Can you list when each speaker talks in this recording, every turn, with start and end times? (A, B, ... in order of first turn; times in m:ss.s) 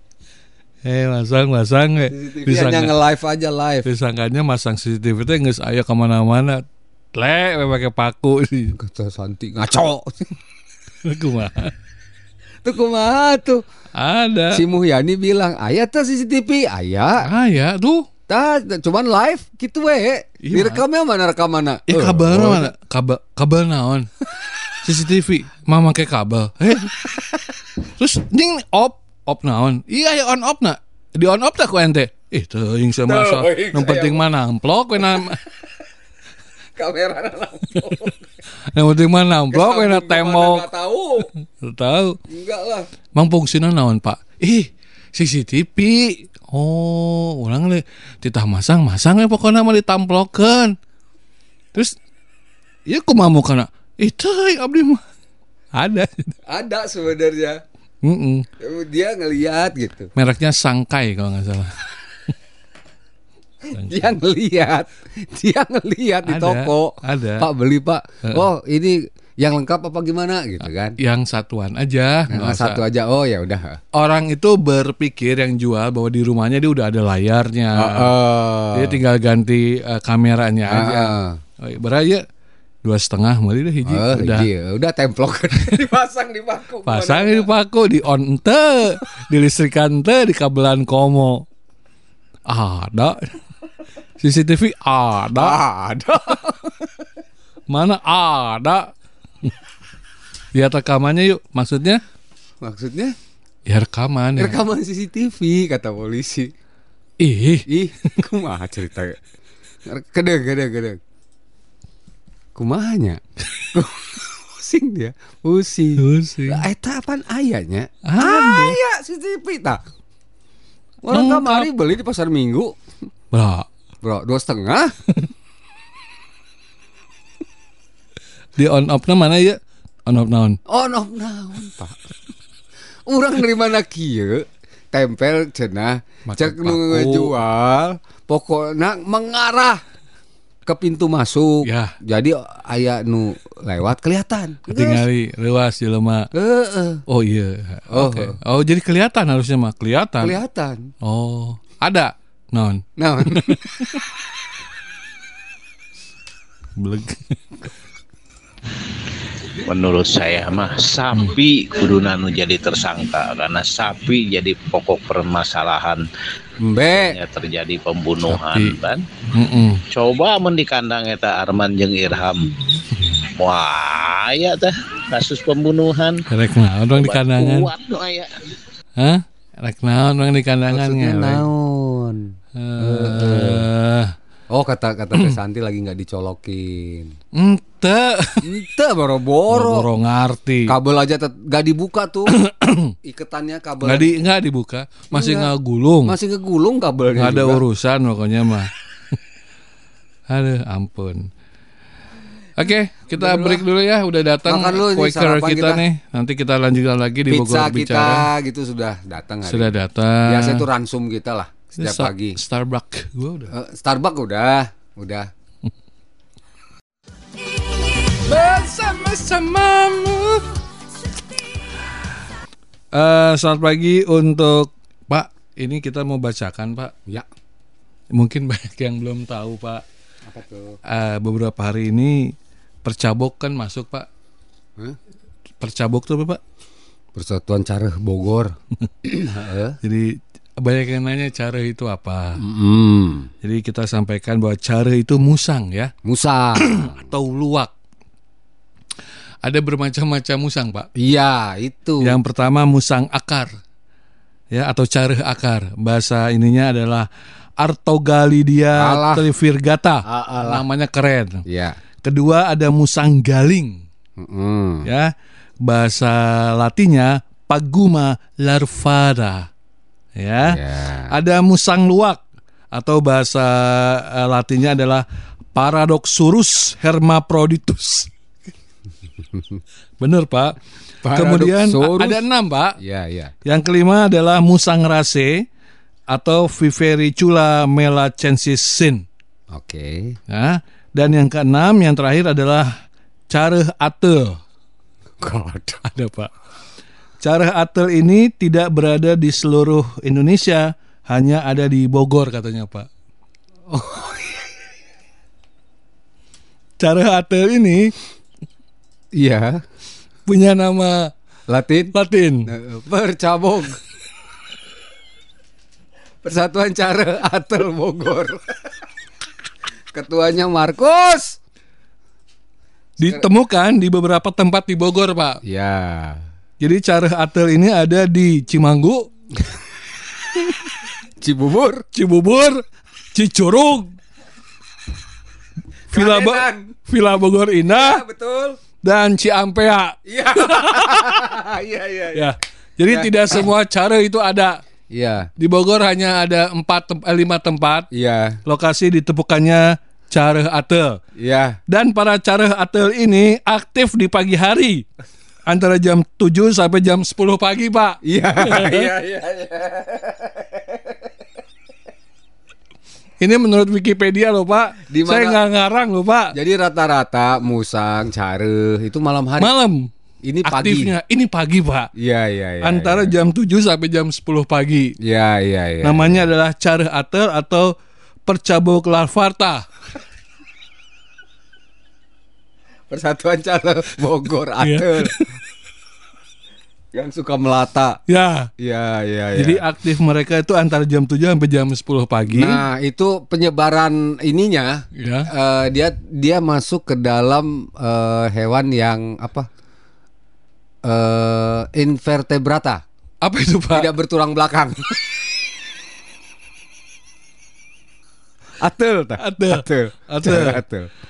0:00.8-0:02.9 A
0:02.1-0:03.8 B
0:03.8-0:06.6 A
0:07.1-0:08.8 A
0:08.8-0:10.3 B
0:11.0-0:11.7 A
0:12.6-0:13.6 B
0:14.0-0:14.6 A
0:14.5-0:17.2 B
0:17.2-0:18.1 A
0:18.3-0:22.7 B
0:20.4-0:20.8 A
0:21.9-0:24.1 A
0:24.8-0:26.9 A
0:28.0-0:35.4 A
0:33.0-0:34.2 B
0:36.8-0:38.2 B
0:37.8-0:38.1 A
0:38.6-0:40.6 A
0:39.5-0:41.3 B
0:41.6-0:42.2 A
0:42.3-0:42.9 B
0:43.2-0:50.8 A
0:52.9-0:55.0 A
0:55.8-0:56.4 A
0:56.5-0:57.6 B
0:58.0-0:58.4 A
0:58.6-1:00.1 B
1:00.2-1:02.0 A
1:03.8-1:11.0 B
1:06.2-1:07.4 A
1:11.0-1:12.8 A
1:12.3-1:13.8 B
1:13.9-1:18.1 A
1:17.7-1:19.0 B
1:18.7-1:22.2 A
1:20.7-1:21.4 B
1:22.8-1:24.5 A
1:23.8-1:27.5 B
1:26.8-1:31.4 A
1:32.5-1:33.4 A
1:34.2-1:35.6 A
1:35.4-1:37.0 B
1:37.7-1:38.9 A
1:40.5-1:42.0 A
1:42.6-1:43.2 B
1:43.7-1:44.6 A
1:44.4-1:46.5 B
1:47.2-1:47.6 A
1:47.7-1:49.2 B
1:49.8-1:51.0 B
1:52.6-1:53.2 B
1:53.7-1:59.8 B
1:56.0-1:56.6 A
1:58.0-1:58.8 A
2:01.0-2:02.8 B
2:01.1-2:01.7 A
2:03.3-2:03.7 A
2:04.0-2:04.9 B
2:08.6-2:10.6 A
2:10.7-2:12.0 B
2:13.1-2:19.8 B
2:16.3-2:17.3 A
2:20.6-2:25.0 B
2:21.6-2:22.0 A
2:24.7-2:26.3 A
2:26.3-2:27.0 B
2:27.1-2:30.4 A
2:27.9-2:28.4 B
2:30.2-2:30.9 B
2:31.0-2:34.0 A
2:33.0-2:33.6 B
2:36.8-2:37.4 A
2:39.6-2:46.0 C
2:46.6-2:47.2 B
2:46.9-2:49.0 C
2:48.3-2:48.8 A
2:49.3-2:49.8 A
2:49.9-2:52.6 C
2:53.4-2:56.2 C
2:56.3-2:57.7 A
2:56.9-2:58.4 C
2:59.0-3:01.5 A
3:00.7-3:03.7 B
3:02.5-3:04.1 A
3:04.5-3:07.1 B
3:07.3-3:08.4 A
3:08.4-3:09.9 B
3:09.5-3:10.7 A
3:10.7-3:12.3 B
3:12.3-3:12.9 A
3:13.0-3:14.1 B
3:13.8-3:16.1 A
3:15.1-3:15.5 B
3:16.0-3:17.6 B
3:17.2-3:18.7 A
3:20.3-3:21.3 A
3:22.6-3:28.3 A
3:23.1-3:23.6 B
3:24.4-3:25.8 B
3:27.3-3:29.7 B
3:29.4-3:30.7 A
3:30.3-3:32.4 B
3:31.8-3:33.5 A
3:33.5-3:35.3 B
3:38.2-3:40.4 A
3:42.9-3:46.9 A
3:48.1-3:49.8 A
3:50.2-3:50.8 B
3:50.9-3:52.3 A
3:52.8-3:54.1 A
3:55.6-3:56.4 A
3:57.1-3:58.5 B
3:59.0-3:59.8 B
3:59.8-4:02.4 A
4:02.4-4:03.3 B
4:03.4-4:05.9 A
4:06.0-4:07.0 B
4:06.6-4:07.7 A
4:09.4-4:10.9 A
4:11.0-4:12.2 B
4:12.0-4:13.5 A
4:14.5-4:17.1 A
4:17.6-4:21.4 A
4:18.8-4:19.3 B
4:20.0-4:20.6 B
4:21.4-4:21.8 B
4:22.0-4:23.8 A
4:24.2-4:24.9 B
4:24.8-4:25.1 A
4:25.6-4:29.5 A
4:30.2-4:30.6 A
4:30.4-4:31.1 B
4:31.1-4:38.1 A
4:39.3-4:39.6 B
4:40.0-4:40.5 A
4:41.0-4:42.2 B
4:41.1-4:42.8 A
4:42.8-4:43.3 B
4:43.4-4:45.4 A
4:46.1-4:49.0 A
4:49.5-4:50.2 B
4:50.3-4:52.7 A
4:53.3-4:54.4 A
4:55.2-4:55.8 B
4:55.8-4:56.3 A
4:57.2-5:02.9 A
5:03.7-5:04.5 B
5:06.8-5:07.9 A
5:09.2-5:09.6 B
5:10.3-5:11.1 A
5:11.5-5:11.9 B
5:11.9-5:12.5 A
5:12.4-5:13.8 B
5:16.2-5:18.7 B
5:19.9-5:21.4 B
5:23.0-5:25.4 A
5:25.4-5:26.2 B
5:26.6-5:29.1 A
5:31.2-5:31.8 B
5:31.9-5:32.6 A
5:33.1-5:33.9 A
5:35.9-5:36.7 B
5:35.9-5:38.0 A
5:37.7-5:38.6 B
5:38.8-5:41.2 A
5:40.0-5:42.4 B
5:42.1-5:44.6 A
5:42.9-5:43.5 B
5:44.9-5:45.3 B
5:45.4-5:47.9 A
5:47.9-5:48.4 B
5:48.4-5:51.0 A
5:51.2-5:51.6 B
5:51.7-5:54.8 A
5:55.5-5:58.9 A
5:58.0-6:01.0 B
6:03.2-6:06.3 A
6:04.9-6:05.4 B
6:06.3-6:09.5 B
6:09.4-6:09.9 A
6:10.2-6:10.9 B
6:10.4-6:11.9 A
6:12.0-6:13.1 B
6:12.6-6:14.9 A
6:15.0-6:16.3 B
6:15.8-6:17.7 A
6:18.2-6:19.6 A
6:22.9-6:25.1 B
6:24.6-6:25.2 A
6:26.9-6:28.0 B
6:28.1-6:28.5 A
6:28.6-6:29.6 B
6:29.4-6:32.6 A
6:32.3-6:39.5 B
6:35.0-6:35.3 A
6:40.8-6:42.8 B
6:43.2-6:43.9 A
6:43.7-6:44.8 B
6:48.6-6:50.9 B
6:49.2-6:50.6 A